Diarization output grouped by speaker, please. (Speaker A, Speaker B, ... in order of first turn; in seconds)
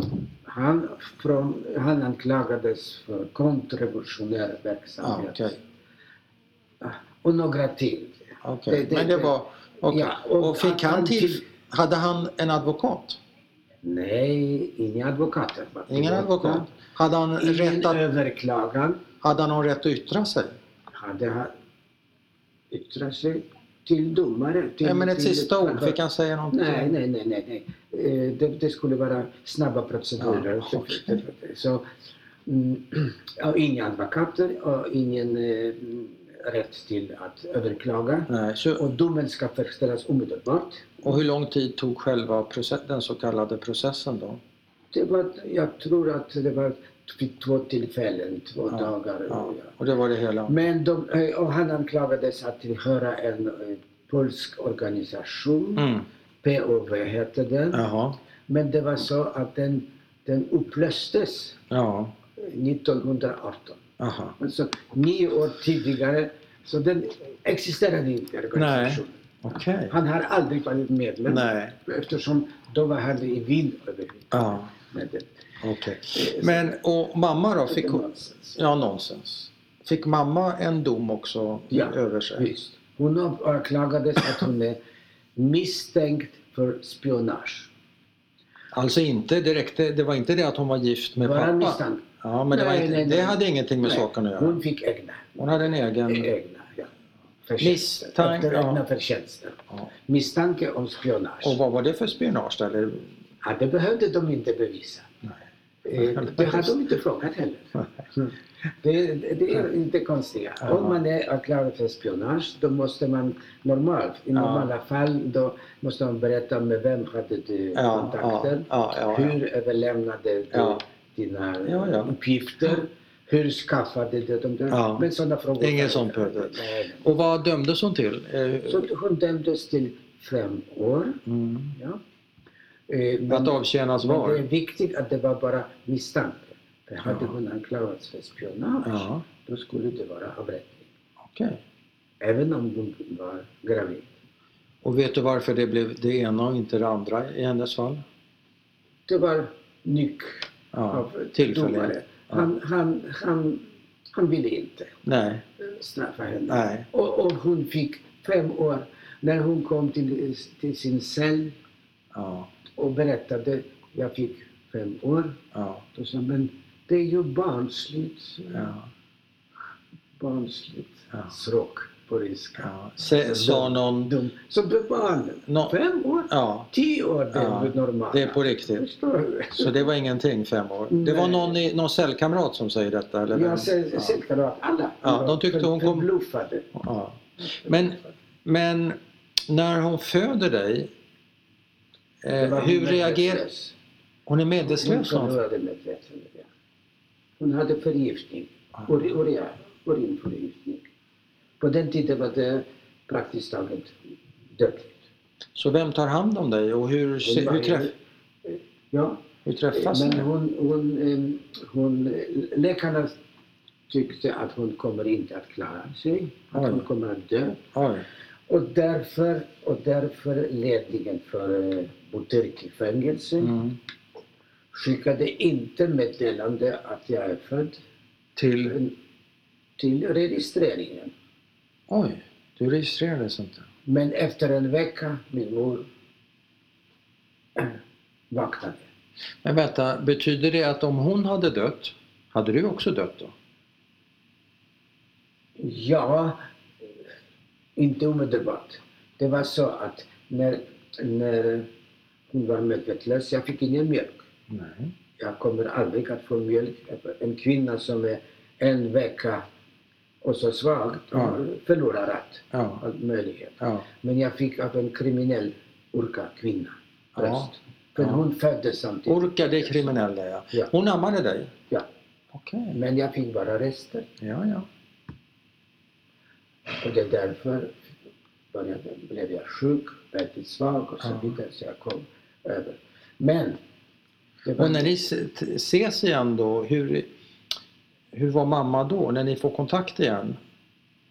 Speaker A: 0.5-5.6, 6.8-9.3, 9.9-11.4, 13.8-16.7, 17.4-19.0, 20.9-21.5, 22.7-26.0, 26.5-31.9, 32.5-41.0, 44.9-49.8, 50.5-55.9, 56.4-57.8, 58.5-61.6, 62.4-63.8, 64.4-69.2, 69.9-75.3, 76.1-76.7, 77.7-78.6, 81.7-84.8, 85.4-87.7, 91.2-96.9, 97.5-101.6, 103.4-105.1, 105.8-127.0, 128.7-131.2, 131.7-132.0, 132.9-140.9, 142.2-144.1, 149.1-155.0, 155.6-161.6, 162.8-165.4, 165.9-168.8, 170.2-179.9, 180.9-181.6, 183.3-186.7, 192.3-193.8, 194.6-196.5, 197.4-200.9, 201.6-203.9, 204.6-205.0, 207.2-207.9, 208.5-209.2, 209.7-213.2, 213.9-217.6, 218.5-223.6, 224.7-227.8, 228.7-228.9, 229.8-231.1, 233.9-235.9, 238.3-238.9, 245.6-246.4, 247.8-251.7, 252.3-254.2, 255.2-259.4, 260.2-269.9, 272.7-274.1, 276.7-277.8, 278.5-283.6, 284.4-284.9
Speaker B: 5.0-5.6, 8.4-13.2, 15.9-18.0, 19.2-20.5, 24.8-26.9, 30.2-31.2, 38.3-38.9, 41.0-44.4, 48.7-50.5, 55.8-56.1, 57.7-58.2, 61.7-62.1, 64.0-64.4, 68.5-69.9, 71.3-71.8, 74.3-74.7, 75.6-82.5, 88.7-94.6, 95.4-96.3, 97.6-98.8, 101.4-103.1, 106.0-106.8, 110.6-111.0, 114.3-114.7, 117.8-119.4, 120.5-120.8, 121.7-122.1, 124.7-125.1, 125.6-128.9, 131.3-131.8, 133.3-134.4, 137.1-137.4, 138.8-139.2, 141.2-141.6, 144.8-148.0, 150.7-152.5, 155.1-155.4, 156.5-156.9, 162.1-162.5, 165.5-165.8, 168.5-168.9, 172.6-174.1, 175.5-175.8, 176.3-176.7, 177.3-178.8, 179.6-184.1, 185.0-186.1, 186.7-190.9, 192.2-193.5, 194.3-195.4, 205.6-207.9, 209.4-210.3, 216.5-216.9, 217.7-218.1, 223.4-223.8, 228.4-228.8, 231.9-233.7, 239.4-243.3, 254.5-254.9, 261.1-261.4, 262.5-262.8, 267.2-268.2, 269.1-271.5, 272.3-272.8, 274.2-274.7, 281.0-281.4, 284.6-287.1, 288.1-290.4